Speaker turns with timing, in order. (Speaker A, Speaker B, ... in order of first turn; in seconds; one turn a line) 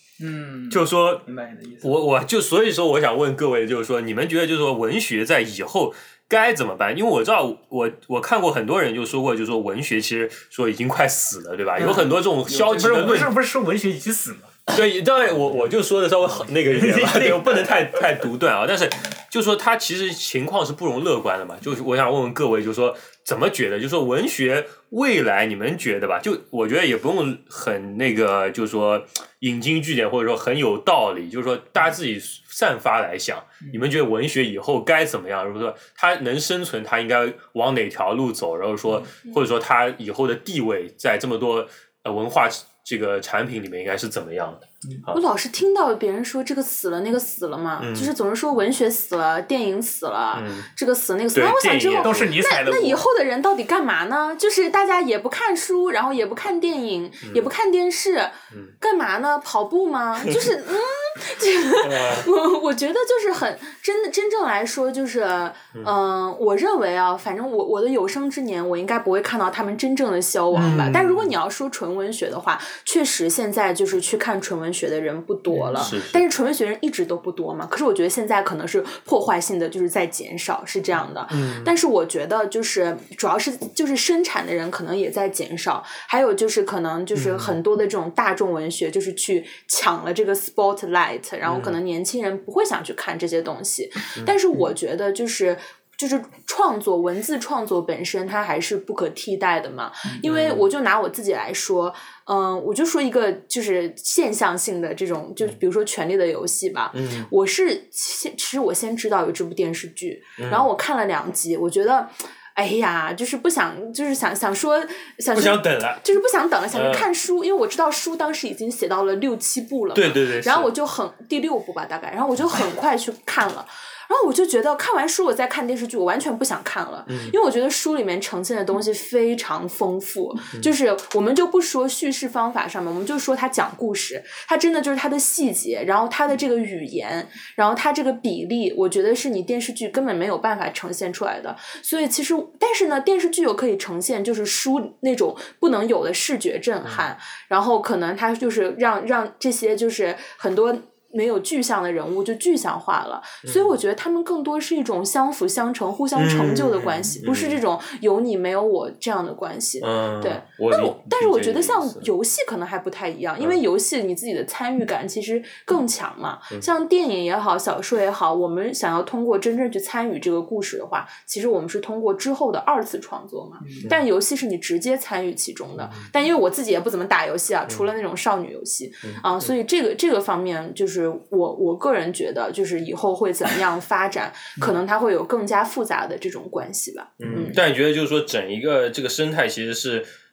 Speaker A: 0.2-1.9
Speaker B: 0.7-1.3
Speaker B: 1.8-13.4
Speaker C: 11.8-14.6
Speaker B: 14.7-45.2
Speaker C: 16.6-18.0
Speaker D: 45.1-187.6
Speaker B: 47.8-48.1
Speaker B: 50.3-50.7
Speaker B: 51.3-52.3
Speaker C: 51.6-53.0
Speaker B: 57.2-57.5
Speaker B: 61.8-62.3
Speaker B: 70.5-71.3
Speaker A: 75.5-75.9
Speaker B: 75.7-76.2
Speaker B: 81.3-81.7
Speaker B: 87.1-87.6
Speaker B: 91.5-91.8
Speaker B: 100.2-100.7
Speaker B: 106.9-107.3
Speaker B: 110.4-110.7
Speaker B: 115.3-116.0
Speaker B: 116.7-117.1
Speaker B: 119.9-120.7
Speaker B: 127.1-127.3
Speaker B: 153.4-153.8
Speaker B: 156.2-157.6
Speaker B: 159.8-162.1
Speaker B: 175.8-176.1
Speaker B: 179.0-179.5
Speaker B: 187.2-190.1